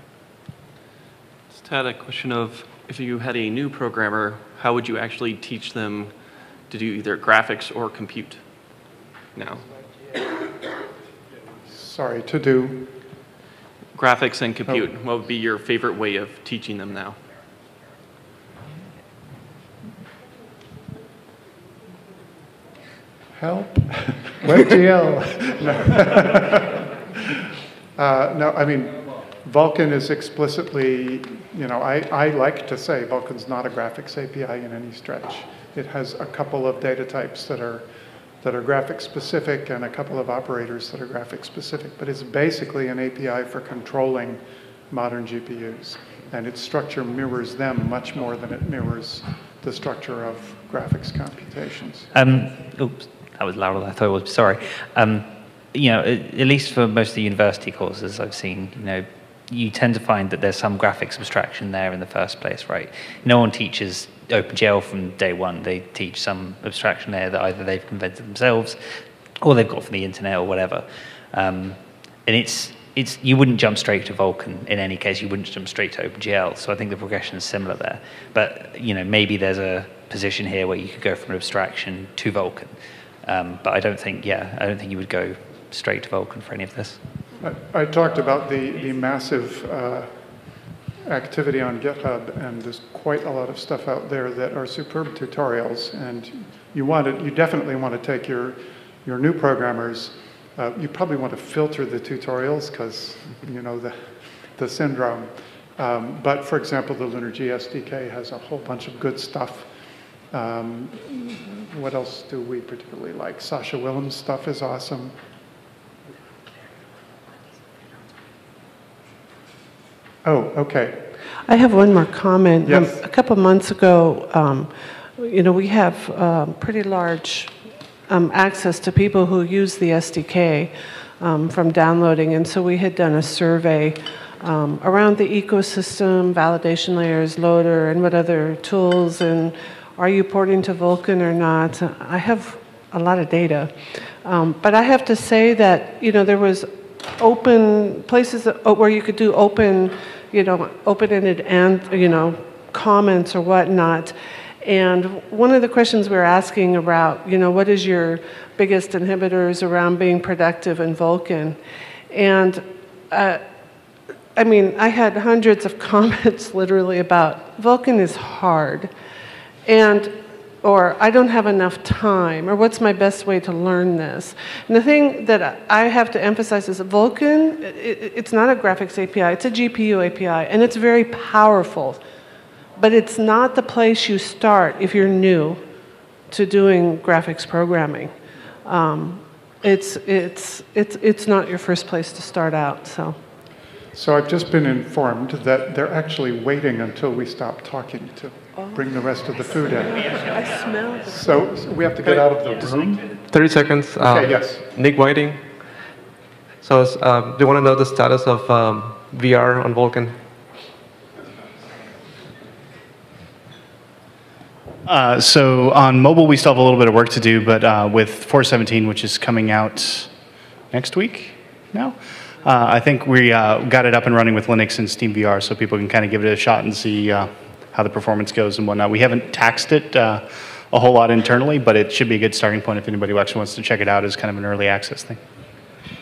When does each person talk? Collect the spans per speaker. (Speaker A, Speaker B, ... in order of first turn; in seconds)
Speaker A: 1.5-6.1, 6.7-8.4, 9.3-9.7, 13.9-17.2
Speaker B: 11.7-12.9, 23.4-26.8, 28.0-37.9, 38.4-52.1, 87.4-109.7, 110.3-115.2, 120.2-121.1, 122.7-123.0, 193.9-200.2, 201.1-203.0, 204.0-204.6
Speaker C: 52.1-87.0, 199.8-201.3, 202.5-203.0
Speaker D: 121.4-127.5, 128.1-163.4, 164.3-168.9, 169.7-182.0, 182.8-185.7, 186.3-193.2, 198.6-198.9, 199.6-202.3
Speaker E: 203.3-205.7, 206.6-210.2
Speaker F: 214.8-220.1, 220.7-235.2